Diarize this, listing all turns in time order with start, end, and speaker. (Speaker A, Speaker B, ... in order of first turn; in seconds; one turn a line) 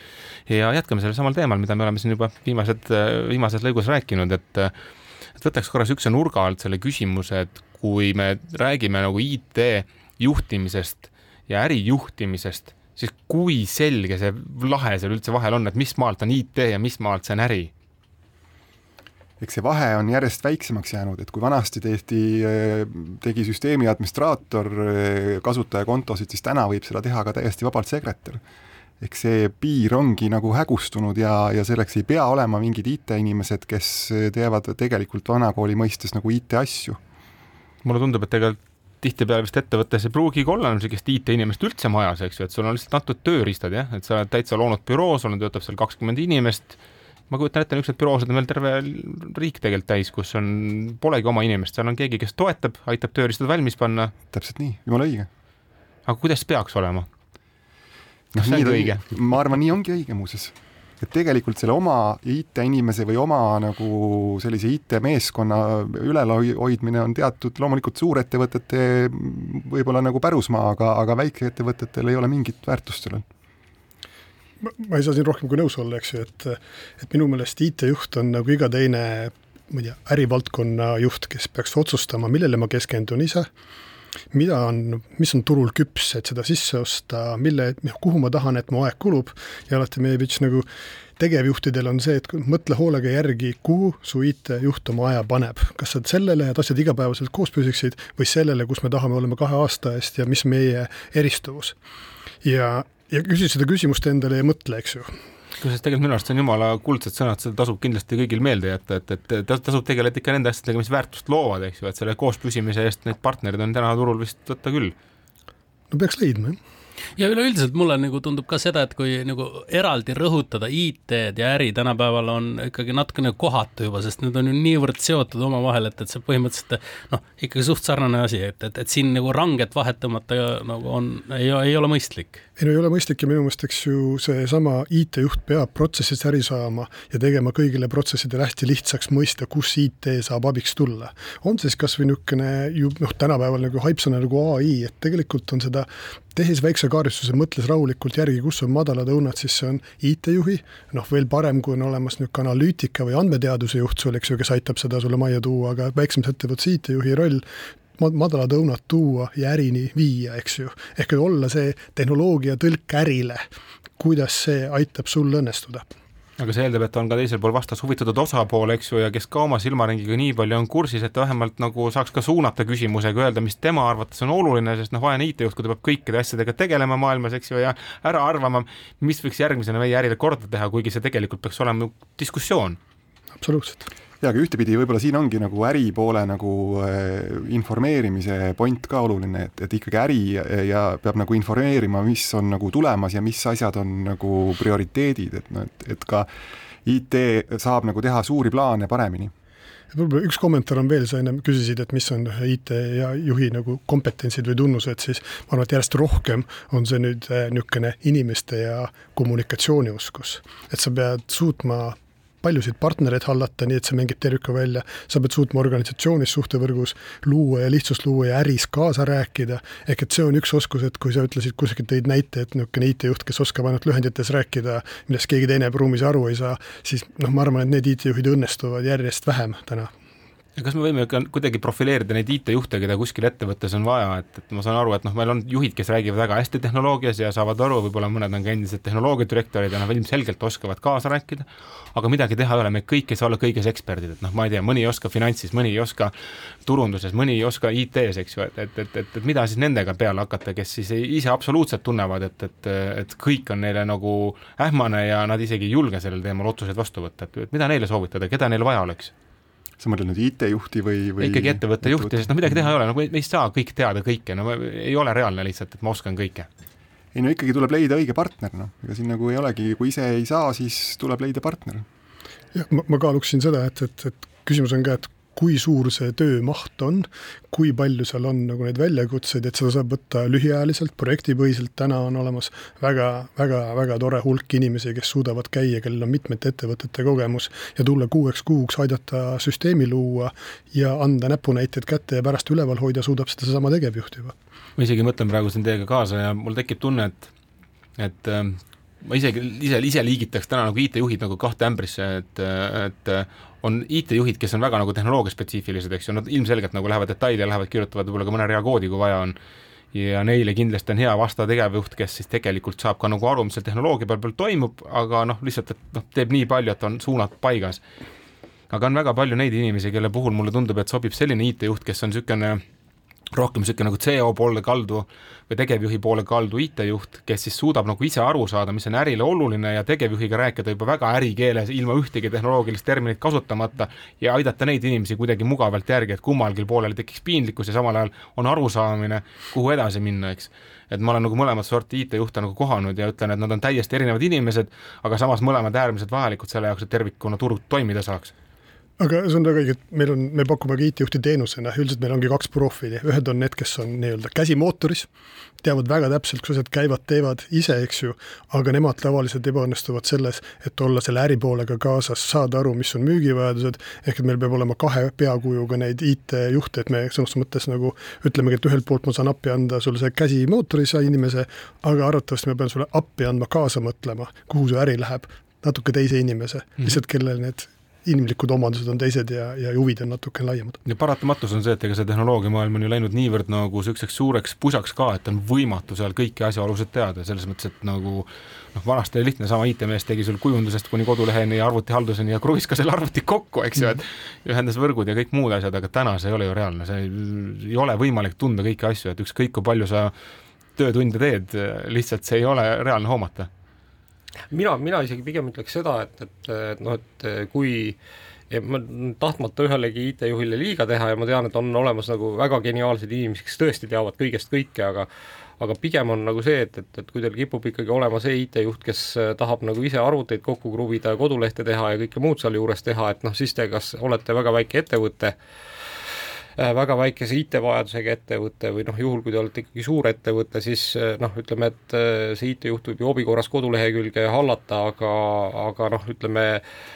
Speaker A: 0.5-4.7
Speaker A: 5.4-17.7
Speaker B: 19.4-28.4
Speaker B: 29.0-37.0
Speaker A: 37.8-46.8
Speaker A: 47.3-54.1
Speaker B: 54.3-55.3
Speaker A: 56.0-57.1
Speaker B: 58.3-73.2
Speaker A: 58.4-59.0
Speaker C: 74.6-83.5
Speaker C: 84.3-90.7
Speaker C: 91.2-101.8
Speaker C: 102.4-105.1
Speaker A: 105.6-114.9
Speaker C: 115.9-116.6
Speaker D: 117.2-132.4
Speaker C: 132.6-157.4
Speaker C: 158.0-163.4
Speaker C: 164.0-165.8
Speaker A: 166.4-182.8
Speaker C: 183.4-183.8
Speaker B: 184.2-196.3
Speaker B: 196.8-199.3
Speaker C: 199.9-229.9
Speaker A: 230.6-259.1
Speaker B: 259.8-262.1
Speaker A: 261.2-266.5
Speaker B: 267.1-271.9
Speaker C: 272.5-294.3
Speaker A: 294.8-297.3
Speaker A: 298.0-309.4
Speaker A: 309.9-317.8
Speaker A: 318.7-322.6
Speaker A: 323.3-348.3
Speaker C: 349.0-355.1
Speaker C: 355.6-380.8
Speaker A: 380.9-400.1
Speaker A: 400.8-403.5
Speaker E: 404.5-408.0
Speaker E: 408.5-415.1
Speaker E: 415.6-425.3
Speaker E: 426.6-436.6